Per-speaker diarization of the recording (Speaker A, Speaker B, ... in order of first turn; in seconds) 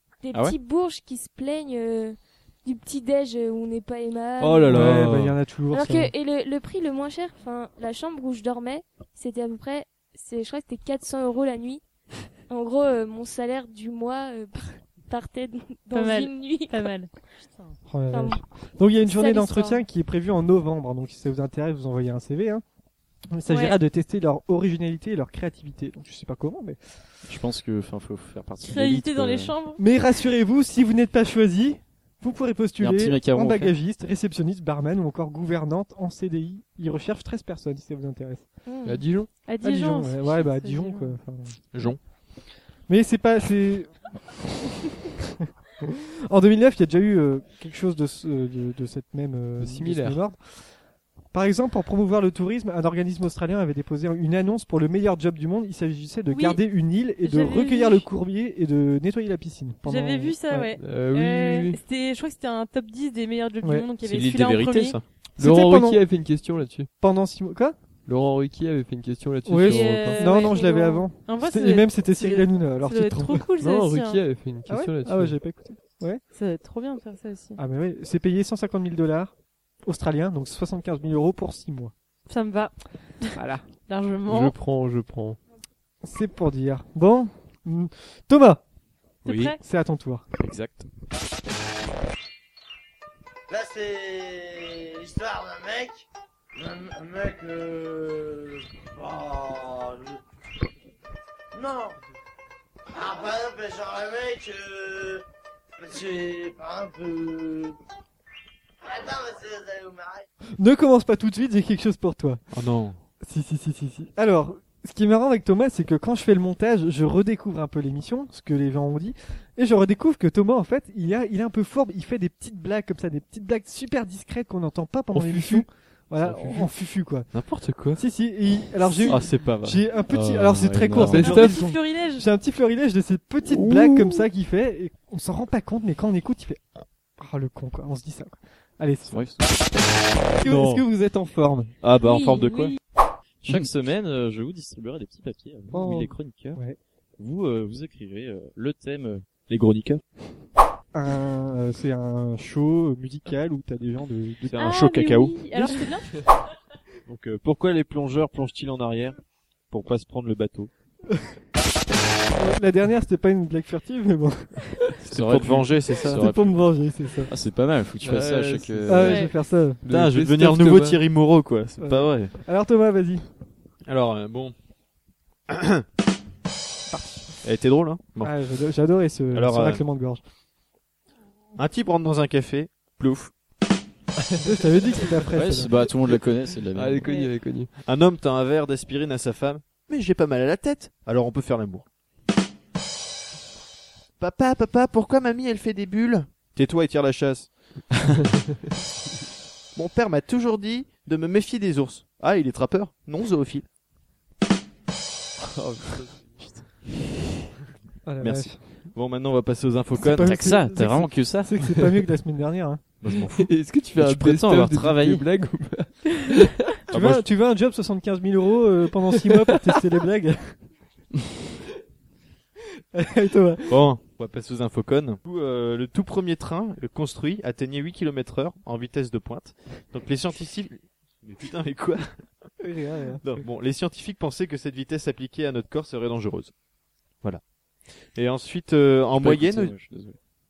Speaker A: 0.2-4.8, 5.7-11.8, 12.5-16.9, 18.1-18.4, 19.0-19.8, 38.6-39.0, 70.2-71.0
Speaker B: 4.4-5.4, 41.7-42.0, 64.3-65.0, 112.5-113.0, 127.3-128.0, 129.1-129.8, 140.4-140.8, 141.8-142.8, 149.5-150.0, 154.4-155.4, 157.1-159.2, 159.7-160.7, 165.0-166.2, 169.9-172.3, 173.8-174.5, 175.5-175.8, 177.4-178.5, 179.3-179.8, 181.6-183.3, 187.8-191.8, 194.2-197.8, 199.7-203.6, 208.9-210.4, 213.0-213.5, 216.9-217.2, 223.7-232.5, 233.2-236.6, 237.2-239.8
Speaker C: 4.7-6.1, 17.9-22.6, 23.3-26.8, 29.8-38.5, 39.6-41.6, 42.9-44.0, 45.2-50.4, 51.3-60.8, 63.6-63.9, 65.4-66.0, 67.0-67.8, 69.5-73.5, 74.7-76.2, 77.6-79.3, 79.8-81.9, 83.3-83.6, 86.0-88.6, 89.6-90.2, 110.6-112.4, 113.2-136.6, 137.2-139.2, 140.4-141.7, 143.4-143.7, 145.7-146.8, 150.9-154.7, 155.5-155.9, 162.3-164.8, 166.0-167.3, 168.8-169.8, 171.8-173.3, 176.9-177.4, 178.2-180.2, 184.4-185.7, 208.0-208.6, 209.9-212.8, 216.9-220.6, 222.9-223.8, 232.6-233.4
Speaker D: 15.9-17.7, 23.5-23.8, 28.6-29.8, 39.5-41.1, 56.3-56.6, 57.2-58.0, 59.8-65.0, 69.6-74.2, 76.3-77.6, 82.3-84.5, 89.2-89.6, 131.1-132.2, 142.0-142.7, 154.6-156.1, 169.0-169.3, 187.0-187.3
Speaker E: 27.2-29.5, 32.8-33.7, 64.0-65.0, 90.4-90.9, 129.3-131.5, 139.1-139.6, 143.4-146.6, 147.2-149.4, 165.0-169.2, 185.3-187.1, 206.4-207.0, 208.2-208.5, 210.0-211.5, 213.9-215.3, 239.1-240.2
Speaker F: 38.9-39.3, 49.6-50.2, 60.8-61.8, 65.4-66.9, 68.0-70.4, 73.6-75.4, 84.2-85.4, 125.1-125.7, 126.2-126.7, 131.0-131.6, 133.5-134.3, 168.0-171.0, 185.8-187.7, 205.5-206.4, 213.3-216.8
Speaker G: 93.5-96.0, 96.6-100.2, 101.5-102.0, 102.9-105.2, 105.8-107.8, 108.8-110.3